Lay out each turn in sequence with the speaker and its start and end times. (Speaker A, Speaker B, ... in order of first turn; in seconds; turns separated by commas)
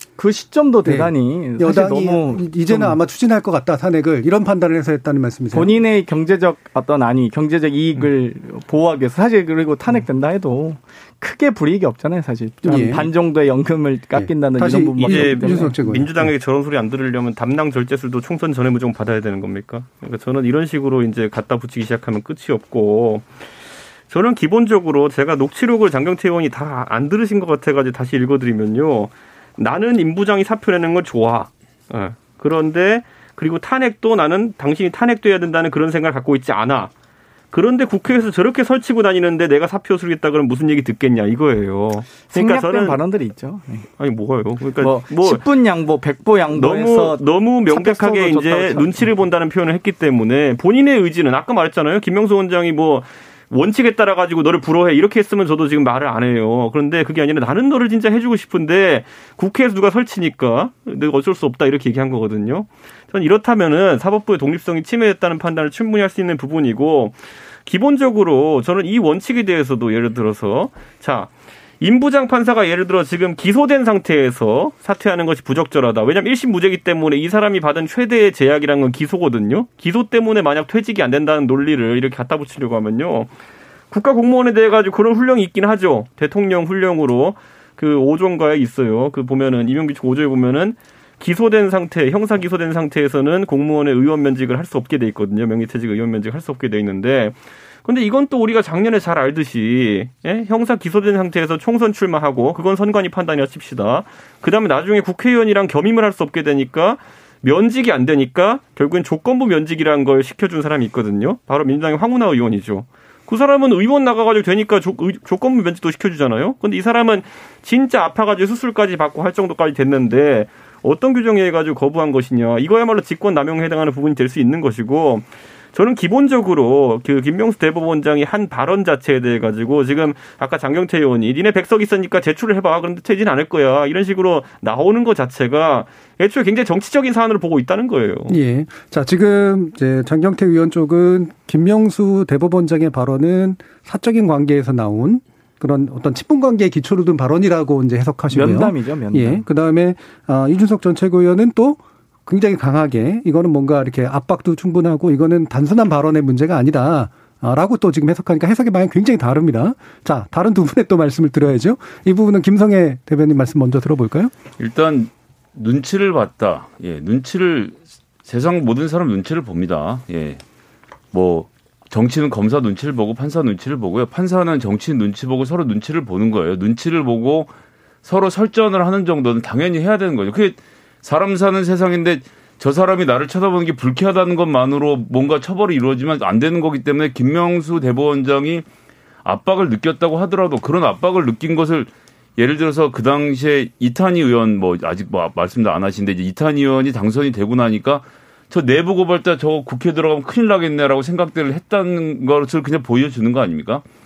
Speaker A: 0.2-3.0, Speaker B: 0.8-5.7, Speaker A: 5.5-15.8, Speaker B: 12.7-13.1, Speaker B: 14.1-16.3, Speaker C: 15.0-23.3, Speaker C: 24.1-36.9, Speaker C: 37.5-43.0, Speaker A: 42.3-43.9, Speaker C: 44.0-45.4, Speaker A: 44.8-49.1, Speaker C: 46.5-83.3, Speaker C: 83.9-138.4, Speaker B: 138.3-164.3, Speaker A: 148.3-149.4, Speaker D: 164.6-170.4, Speaker D: 171.1-177.5, Speaker D: 178.0-188.7, Speaker D: 189.2-203.8